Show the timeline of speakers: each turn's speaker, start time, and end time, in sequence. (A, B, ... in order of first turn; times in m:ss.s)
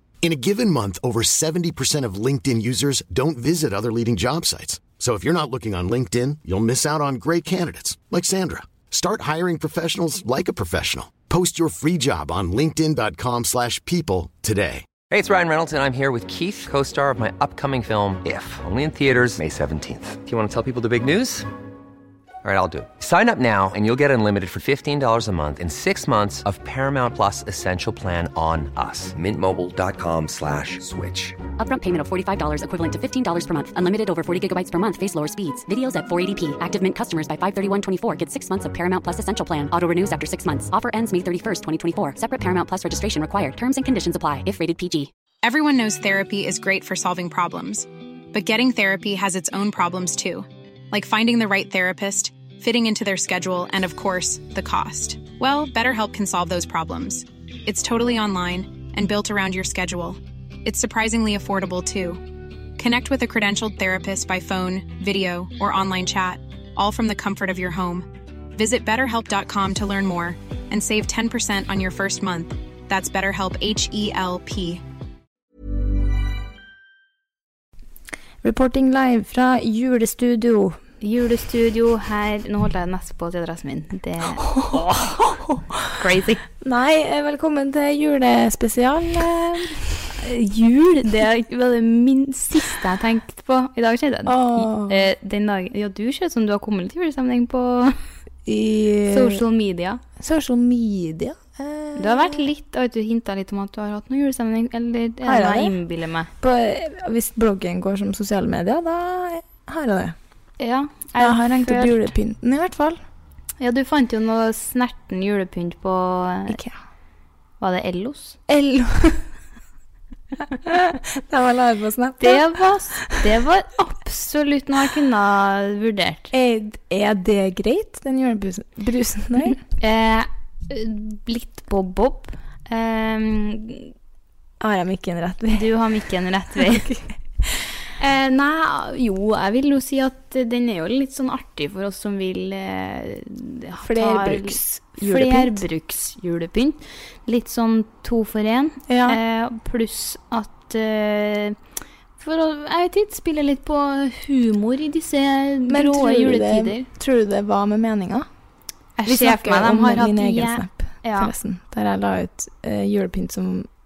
0:00.2-0:14.9 A
0:15.1-0:21.5 B
0:22.4-0:31.4 B
0:31.6-0:45.1 C
0:45.4-1:02.2 D
1:02.8-1:14.8 D
1:18.4-1:20.8 E
1:21.0-1:24.6 F
1:24.4-1:25.9 E
1:25.9-1:26.4 F
1:26.6-1:29.8 E
1:30.2-1:38.0 F
1:34.3-1:35.0 E
1:38.5-1:39.4 E
1:39.1-1:40.0 F
1:40.2-1:42.4 E
1:42.0-1:46.3 F
1:45.2-1:45.8 E
1:46.4-1:50.2 E
1:50.6-1:52.1 F
1:51.2-1:53.0 E
1:53.6-1:56.6 F
1:56.5-1:56.8 E
1:57.6-1:58.4 F
1:58.5-1:59.3 E
2:00.6-2:03.2 E
2:02.2-2:06.3 F
2:06.3-2:09.6 E
2:09.8-2:13.9 F
2:14.6-2:15.7 E
2:15.5-2:16.9 F
2:16.5-2:17.6 E
2:18.0-2:31.6 F
2:23.8-2:25.6 E
2:28.9-2:29.2 E
2:32.2-2:36.9 F
2:35.7-2:38.3 E
2:39.0-2:41.3 F
2:39.0-2:43.7 E